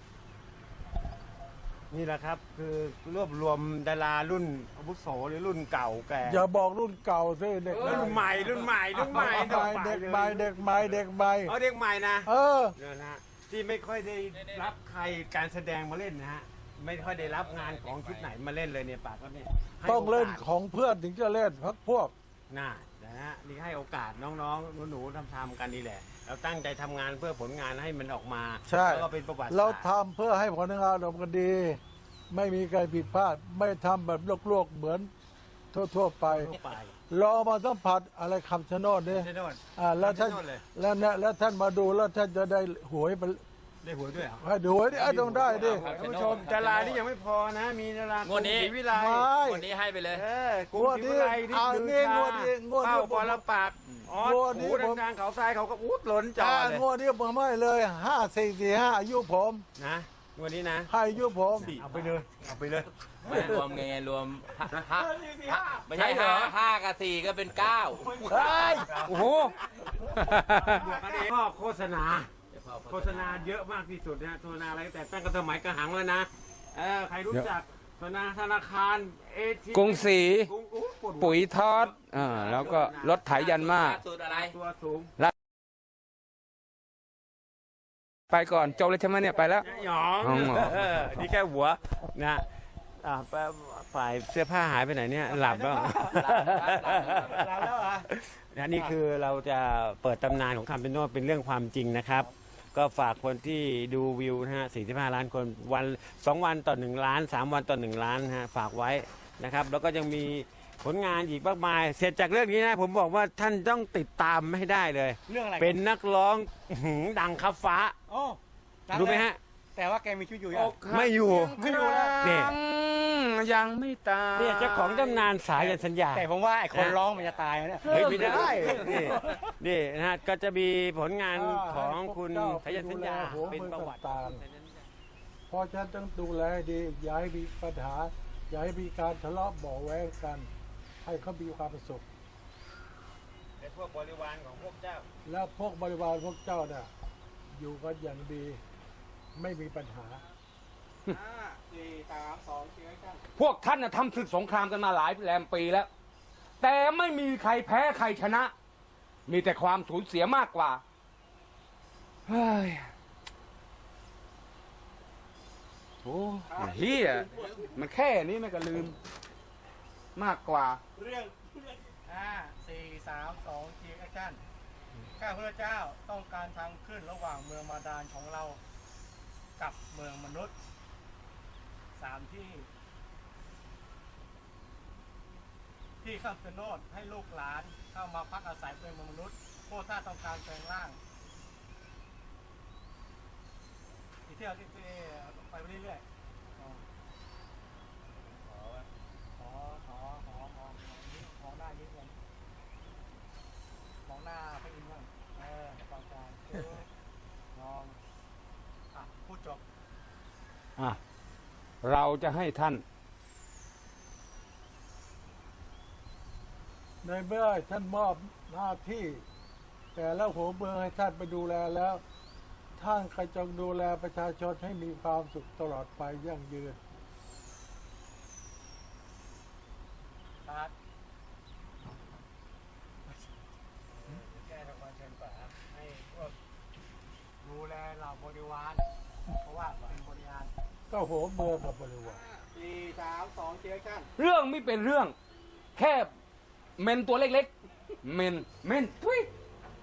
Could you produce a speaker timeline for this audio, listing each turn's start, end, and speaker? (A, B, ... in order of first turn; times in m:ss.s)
0:01.9-0:06.5 A
0:06.2-0:11.5 B
0:07.8-0:20.5 A
0:12.2-0:12.8 B
0:14.4-0:14.6 C
0:17.2-0:18.3 C
0:19.8-0:22.1 B
0:22.5-0:29.9 A
0:28.6-0:35.1 B
0:35.7-0:36.5 B
0:36.2-0:37.0 A
0:37.1-0:43.4 B
0:39.1-0:40.6 A
0:43.8-0:49.3 A
0:44.4-0:45.8 B
0:45.5-0:47.0 C
0:48.2-0:48.8 C
0:48.9-0:49.6 B
0:49.3-0:50.2 C
0:50.1-0:56.8 A
0:50.7-0:53.4 B
0:54.2-0:55.0 B
0:56.4-0:59.6 B
0:59.8-1:00.9 A
1:00.9-1:01.7 B
1:01.6-1:02.1 C
1:01.7-1:03.6 A
1:03.2-1:09.0 C
1:05.2-1:05.5 D
1:06.0-1:06.4 A
1:08.2-1:09.1 A
1:08.4-1:08.7 B
1:08.9-1:10.9 E
1:10.6-1:12.3 A
1:12.5-1:13.5 C
1:12.8-1:23.2 A
1:19.7-1:20.5 E
1:21.2-1:24.0 E
1:22.3-1:24.5 C
1:24.3-1:25.1 A
1:28.3-1:29.6 E
1:29.2-1:29.8 D
1:29.6-1:58.0 A
1:30.2-1:30.9 E
1:35.2-1:36.3 D
1:36.1-1:37.4 C
1:37.1-1:38.1 D
1:55.3-1:55.8 D
1:58.1-2:00.8 D
1:58.9-1:59.4 A
2:00.5-2:04.9 E
2:00.9-2:01.6 A
2:01.4-2:02.2 D
2:02.2-2:02.5 A
2:04.4-2:07.0 A
2:04.8-2:09.5 D
2:07.8-2:08.7 E
2:07.9-2:14.9 A
2:11.3-2:14.4 B
2:15.5-2:20.5 B
2:21.0-2:22.0 B
2:23.6-2:25.0 A
2:25.2-2:26.9 B
2:27.5-2:28.6 B
2:29.3-2:30.2 B
2:31.7-2:33.2 D
2:33.4-2:35.9 E
2:36.6-2:38.5 E
2:39.3-2:40.8 E
2:42.3-2:42.9 E
2:46.0-2:49.0 E
2:46.5-2:47.8 D
2:50.1-2:50.8 E
2:51.0-2:54.4 D
2:55.2-2:58.6 D
2:59.6-3:00.5 D
3:01.9-3:02.7 D
3:06.0-3:11.0 D
3:14.2-3:16.0 D
3:16.6-3:16.8 D
3:19.4-3:22.1 D
3:24.0-3:26.9 D
3:27.5-3:28.0 D
3:28.9-3:29.6 D
3:31.8-3:32.8 E
3:37.0-3:39.2 B
3:39.9-3:42.0 B
3:42.8-3:46.8 B
3:50.4-3:50.7 D
3:53.1-3:53.4 D
3:54.1-3:55.9 D
3:55.7-3:56.1 A
3:57.4-3:58.9 D
3:59.4-4:00.5 D
4:00.9-4:02.2 B
4:02.5-4:04.1 D
4:04.2-4:05.1 E
4:05.8-4:06.1 E
4:06.8-4:07.5 E
4:08.0-4:09.3 E